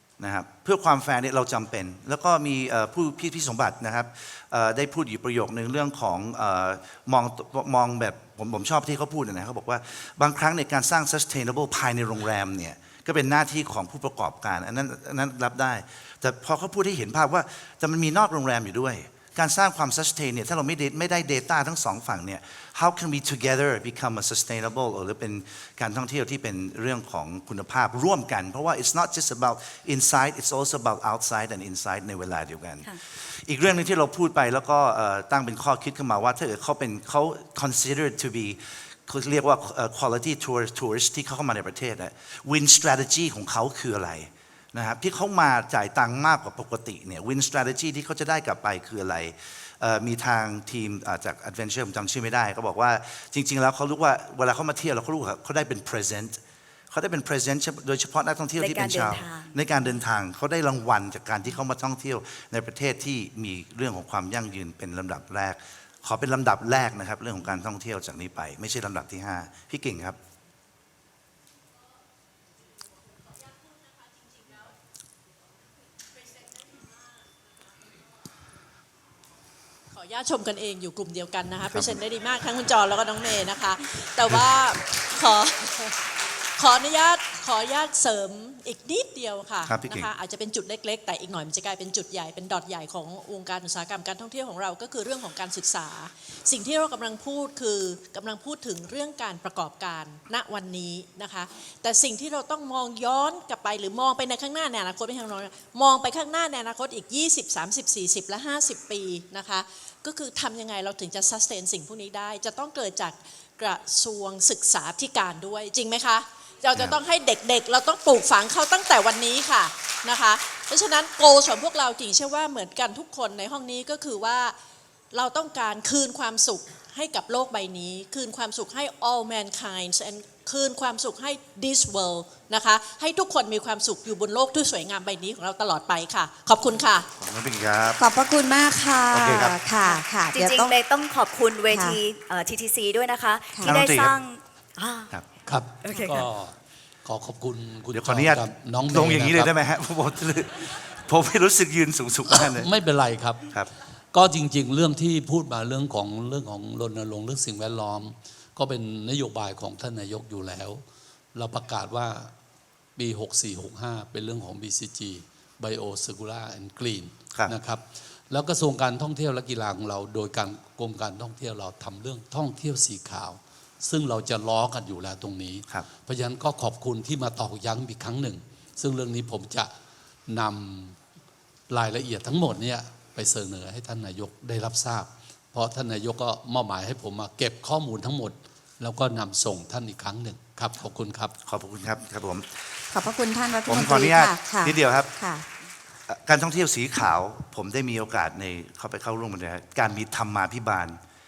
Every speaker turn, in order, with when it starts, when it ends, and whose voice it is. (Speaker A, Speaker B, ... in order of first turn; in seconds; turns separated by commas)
Speaker A: 0.2-56.4, Speaker A: 56.9-70.2, Speaker B: 58.5-60.0, Speaker C: 79.9-86.0, Speaker A: 81.7-82.0, Speaker C: 86.6-124.5, Speaker A: 89.6-90.1, Speaker A: 116.7-117.0, Speaker C: 125.1-137.1, Speaker A: 137.2-138.0, Speaker D: 138.0-140.8, Speaker A: 139.1-139.6, Speaker B: 139.8-145.1, Speaker D: 141.7-142.0, Speaker A: 143.6-144.2, Speaker E: 145.4-149.5, Speaker B: 145.8-146.3, Speaker A: 147.9-152.7, Speaker E: 152.3-153.5, Speaker E: 154.1-162.3, Speaker E: 162.9-179.7, Speaker E: 180.3-181.0, Speaker E: 181.7-191.3, Speaker A: 191.4-192.5, Speaker D: 192.9-195.4, Speaker A: 193.7-195.1, Speaker A: 196.1-201.0